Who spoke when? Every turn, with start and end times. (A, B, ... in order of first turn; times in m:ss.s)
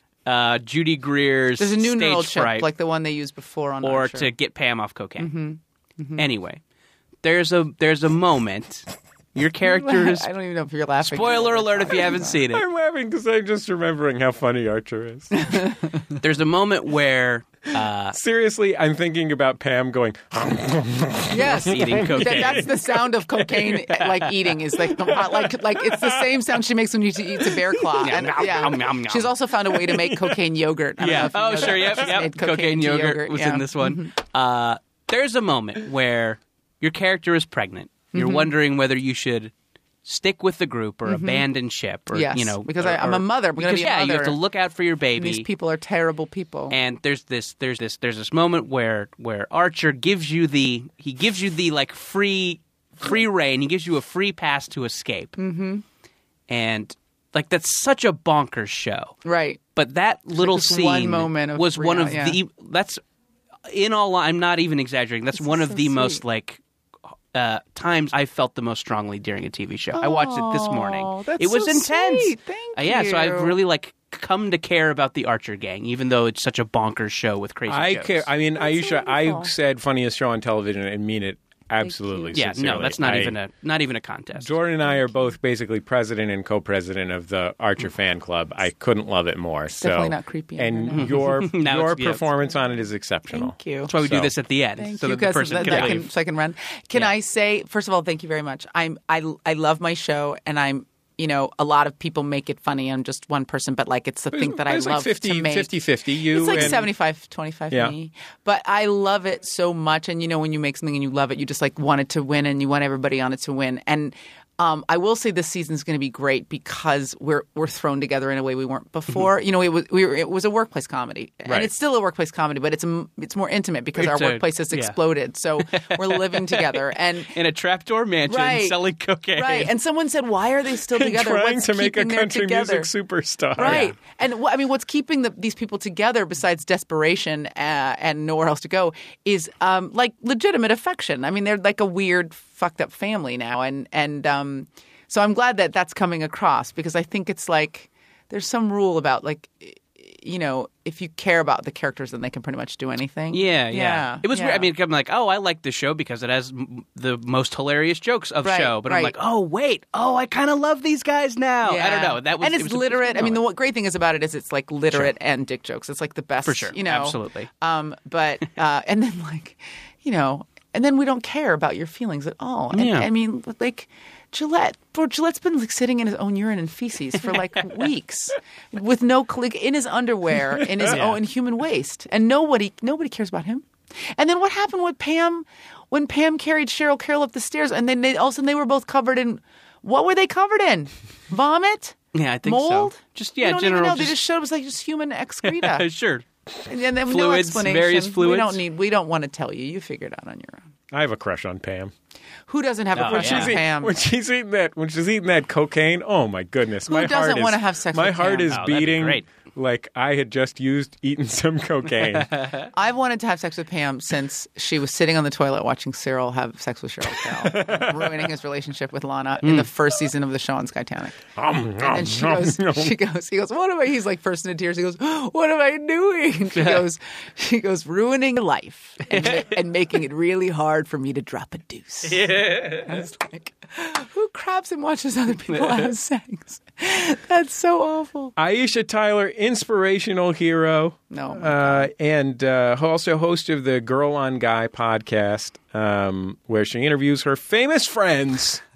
0:00.3-0:02.7 A
0:01.6-0:04.3 B
0:03.8-0:05.3 A
0:05.2-0:06.2 B
0:06.2-0:06.6 A
0:07.2-0:10.3 A
0:09.6-0:12.4 B
0:11.0-0:12.6 A
0:12.5-0:15.7 C
0:15.4-0:15.8 B
0:16.2-0:18.2 A
0:18.1-0:24.0 C
0:21.3-0:34.1 B
0:21.5-0:22.7 A
0:24.9-0:26.4 C
0:27.4-0:28.7 C
0:28.0-0:29.3 A
0:29.8-0:30.3 C
0:31.0-0:39.5 A
0:31.5-0:32.1 C
0:38.1-0:38.5 B
0:40.0-0:45.5 A
0:41.1-0:41.4 B
0:42.1-0:44.4 B
0:45.2-0:46.8 B
0:46.7-0:55.4 A
0:55.4-0:55.8 B
0:56.5-0:59.2 A
0:59.2-0:59.6 B
0:59.8-1:03.0 A
1:00.4-1:02.4 B
1:03.7-1:06.6 A
1:05.4-1:06.2 B
1:07.3-1:18.3 A
1:10.0-1:13.6 B
1:17.7-1:23.4 C
1:18.6-1:19.5 B
1:21.8-1:22.4 B
1:22.3-1:24.5 A
1:24.4-1:34.3 C
1:29.7-1:31.2 B
1:30.9-1:32.2 A
1:33.3-1:33.9 B
1:33.9-1:36.1 A
1:34.8-2:07.3 B
1:35.6-1:36.0 C
1:44.3-1:46.9 C
2:04.0-2:05.0 A
2:05.6-2:09.7 A
2:08.3-2:08.8 B
2:09.3-2:12.9 B
2:10.9-2:13.9 C
2:13.6-2:34.7 B
2:13.6-2:14.0 A
2:33.3-2:43.4 A
2:38.4-2:39.2 B
2:41.6-3:15.8 B
2:46.4-2:47.5 A
2:52.7-2:53.1 A
3:00.9-3:01.2 A
3:12.1-3:14.2 A
3:15.4-3:16.2 A
3:16.7-3:20.6 B
3:17.1-3:18.6 A
3:20.9-3:21.9 C
3:22.5-3:24.0 B
3:23.0-3:23.6 A
3:23.0-3:32.4 C
3:26.9-3:28.6 B
3:28.5-3:29.2 A
3:32.2-3:32.7 A
3:32.7-3:41.2 B
3:37.3-3:38.3 C
3:39.4-3:39.7 A
3:41.4-3:43.0 C
3:41.8-3:58.3 B
3:46.6-3:46.8 A
3:49.1-3:49.5 A
3:52.0-3:53.0 A
3:55.5-3:55.9 A
3:58.4-4:08.6 C
4:01.1-4:01.9 B